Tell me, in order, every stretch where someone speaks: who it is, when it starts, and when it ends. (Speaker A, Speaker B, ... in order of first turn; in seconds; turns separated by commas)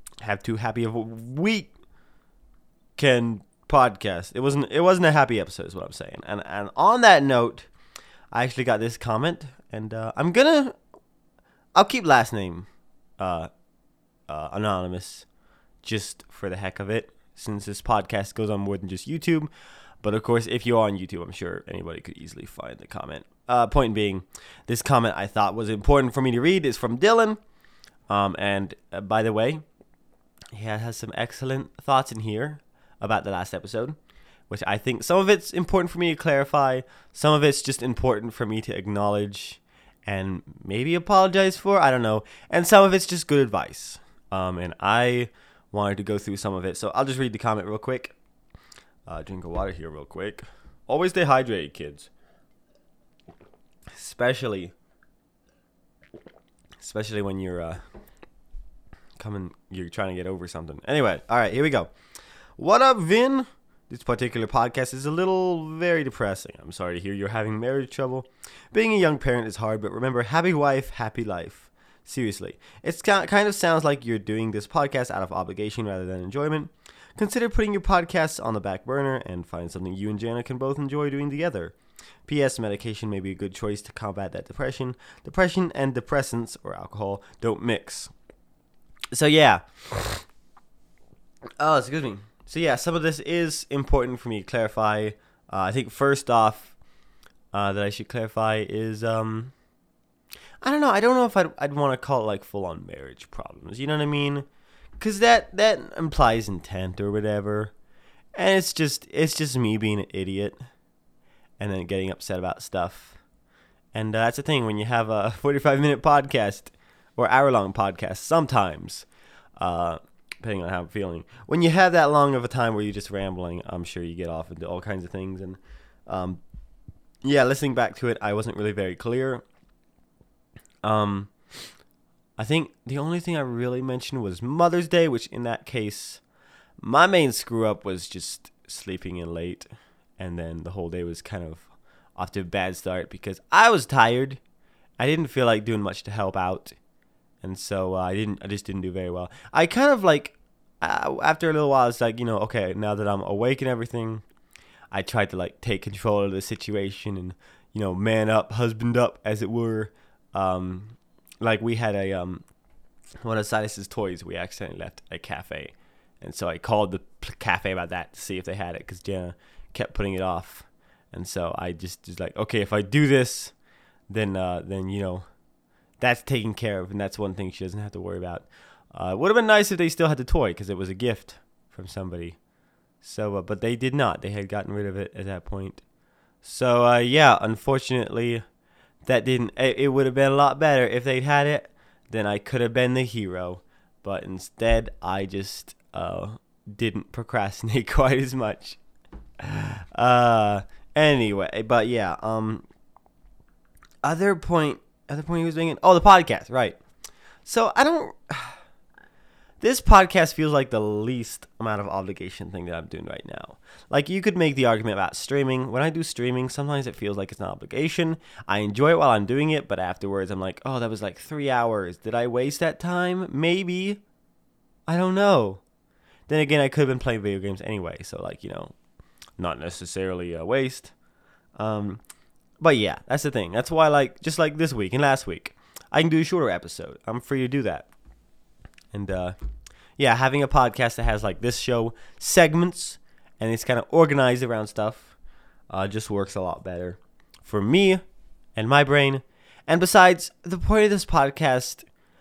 Speaker A: 0.2-1.7, Speaker A: 3.0-7.7, Speaker A: 8.3-10.8, Speaker A: 11.8-12.7, Speaker A: 13.2-13.5, Speaker A: 14.3-15.2, Speaker A: 15.8-19.5, Speaker A: 20.0-27.4, Speaker A: 28.1-29.6, Speaker A: 30.5-34.0, Speaker A: 34.5-48.1, Speaker A: 49.1-52.1, Speaker A: 53.9-54.7, Speaker A: 56.8-57.8, Speaker A: 59.2-61.9, Speaker A: 62.6-81.8, Speaker A: 82.2-88.1, Speaker A: 89.1-90.2, Speaker A: 91.6-96.8, Speaker A: 97.5-99.5, Speaker A: 100.6-104.5, Speaker A: 105.0-107.7, Speaker A: 108.4-110.6, Speaker A: 111.6-113.2, Speaker A: 113.9-119.1, Speaker A: 119.6-126.4, Speaker A: 127.2-129.4, Speaker A: 130.8-131.3, Speaker A: 132.4-136.2, Speaker A: 136.8-139.7, Speaker A: 140.2-144.4, Speaker A: 145.0-146.8, Speaker A: 147.4-154.2, Speaker A: 154.9-162.4, Speaker A: 163.2-173.5, Speaker A: 174.1-175.2, Speaker A: 176.0-182.4, Speaker A: 183.0-185.8, Speaker A: 186.4-188.4, Speaker A: 189.1-198.8, Speaker A: 199.4-202.6, Speaker A: 204.0-206.8, Speaker A: 207.4-208.6, Speaker A: 209.6-224.0, Speaker A: 224.9-225.6, Speaker A: 226.3-228.7, Speaker A: 229.4-230.9, Speaker A: 231.6-232.0, Speaker A: 232.6-237.9, Speaker A: 238.9-239.4, Speaker A: 240.0-245.1, Speaker A: 245.7-248.0, Speaker A: 248.6-251.9